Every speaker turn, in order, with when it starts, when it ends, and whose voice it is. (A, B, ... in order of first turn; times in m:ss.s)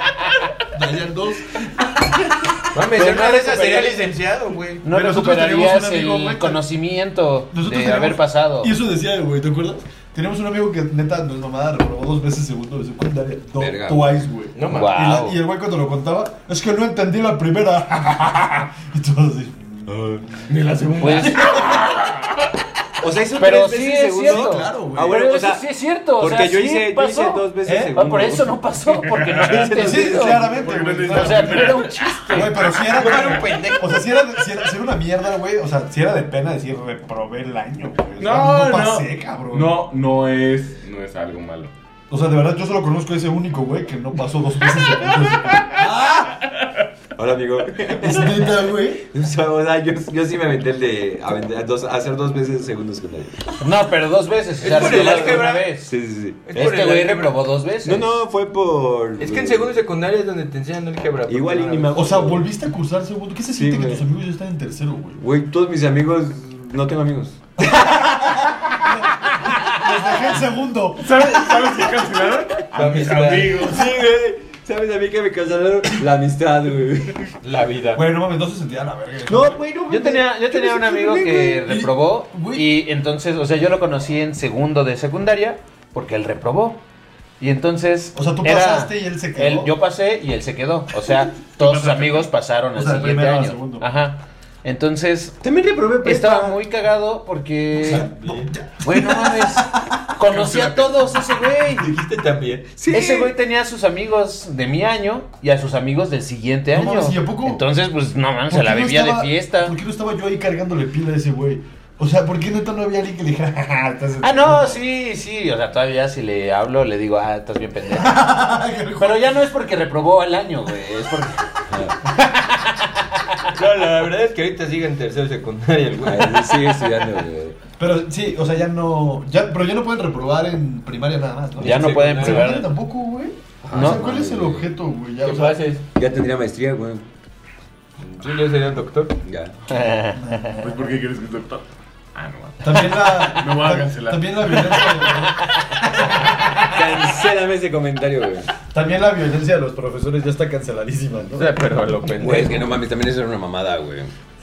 0:00.7-0:03.9 A
0:02.7-0:04.8 B
0:03.5-0:03.8 C
0:04.8-0:08.7 C
0:04.9-0:06.6 A
0:07.5-0:20.5 A
0:13.6-0:14.3 D
0:14.5-0:15.0 B
0:14.6-0:15.4 C
0:20.5-0:22.5 E
0:21.0-0:21.6 C
0:21.2-0:21.9 A
0:23.0-0:25.7 D
0:23.3-0:32.8 C
0:24.2-0:25.2 A
0:26.2-0:28.6 D
0:27.6-0:27.9 A
0:28.9-0:29.7 E
0:29.4-0:30.5 D
0:29.7-0:39.8 A
0:30.5-0:33.5 E
0:33.0-0:33.8 B
0:33.4-0:33.8 D
0:38.2-0:41.7 E
0:42.1-0:46.3 A
0:47.1-0:53.3 D
0:47.9-0:49.1 A
0:53.6-0:55.9 C
0:54.6-0:55.7 B
0:54.7-0:57.1 D
0:56.4-0:57.4 B
0:56.6-0:58.2 C
0:57.8-0:59.7 D
0:59.2-1:02.0 B
1:01.3-1:02.5 D
1:01.9-1:05.2 A
1:03.5-1:04.0 D
1:05.2-1:07.4 D
1:07.6-1:11.8 A
1:11.0-1:14.0 E
1:12.7-1:13.7 B
1:13.4-1:17.3 D
1:17.4-1:18.0 B
1:17.9-1:19.6 A
1:19.2-1:20.3 D
1:19.9-1:26.8 C
1:20.5-1:22.8 A
1:27.4-1:35.4 C
1:28.1-1:29.7 A
1:31.6-1:32.3 E
1:32.7-1:33.8 A
1:35.4-1:36.6 D
1:36.0-1:38.1 C
1:37.8-1:40.3 A
1:37.9-1:38.4 B
1:38.8-1:41.9 C
1:40.5-1:40.8 B
1:41.8-1:43.0 B
1:42.8-1:43.3 D
1:42.9-1:49.7 C
1:46.7-1:47.6 A
1:48.5-1:54.8 A
1:54.2-1:58.2 C
1:57.9-1:59.4 A
1:59.0-2:03.5 C
2:01.7-2:01.9 D
2:03.5-2:06.6 B
2:06.0-2:07.6 D
2:07.8-2:15.6 A
2:11.6-2:12.7 C
2:11.6-2:12.5 D
2:13.6-2:14.7 D
2:13.7-2:14.0 C
2:15.2-2:15.8 B
2:15.9-2:17.1 D
2:18.0-2:19.2 B
2:19.2-2:19.5 D
2:19.7-2:20.6 C
2:20.2-2:20.5 A
2:20.5-2:25.0 E
2:22.6-2:26.8 A
2:25.3-2:26.7 C
2:26.6-2:28.5 D
2:28.7-2:31.6 A
2:31.3-2:32.8 B
2:32.2-2:34.1 D